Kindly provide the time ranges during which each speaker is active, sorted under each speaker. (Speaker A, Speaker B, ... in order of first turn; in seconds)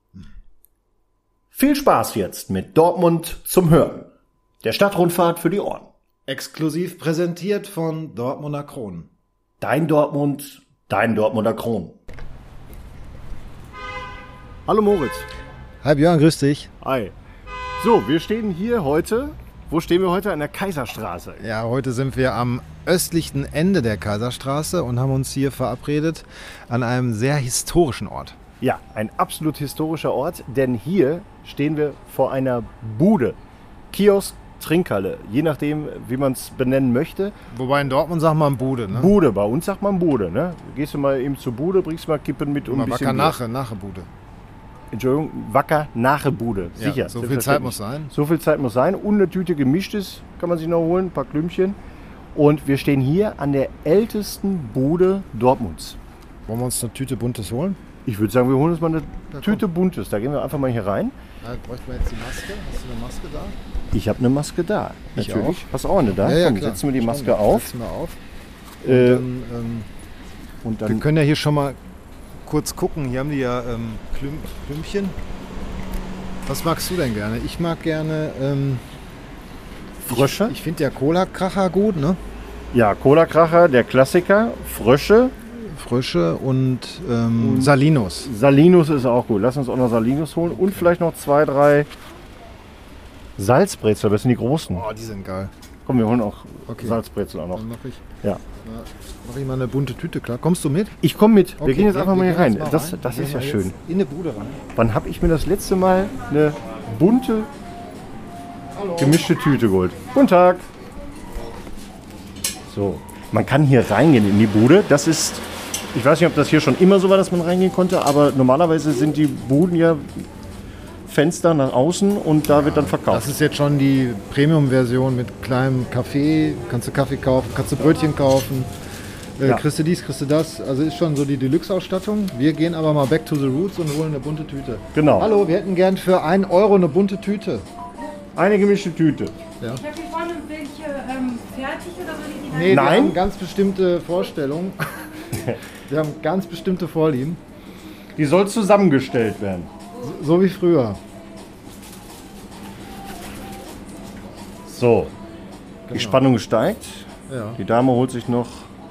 Speaker A: 1.5-4.1, 4.6-5.9, 9.6-12.0, 14.7-15.3, 16.8-17.1, 17.8-21.4, 28.6-33.4, 33.9-37.3, 38.9-43.4, 44.9-51.8, 52.3-56.0, 58.0-61.1, 63.9-67.7, 68.8-69.2, 70.6-71.0, 80.0-80.6, 82.7-85.3, 87.4-91.9, 93.4-94.8, 95.9-97.6, 101.0-103.8, 104.8-107.5, 109.0-110.7, 112.7-120.3, 121.1-123.3, 134.9-135.3, 138.3-139.3, 142.7-143.2, 148.2-149.7, 154.7-155.1, 155.9-158.7
Speaker B: 6.3-9.1, 15.8-16.7, 21.4-28.4, 37.5-39.1, 42.7-44.1, 46.8-48.1, 56.5-57.8, 59.3-59.7, 61.4-63.6, 65.2-68.2, 68.8-69.9, 70.9-71.8, 72.5-75.2, 76.5-78.8, 80.1-82.2, 85.5-88.3, 90.5-90.9, 94.7-95.5, 96.7-97.0, 97.5-98.0, 98.6-101.0, 101.6-104.6, 108.8-109.2, 122.5-128.7, 129.4-137.7, 142.5-145.1, 145.8-147.4, 150.0-151.0, 155.9-156.3, 157.3-157.6
Speaker C: 139.7-142.8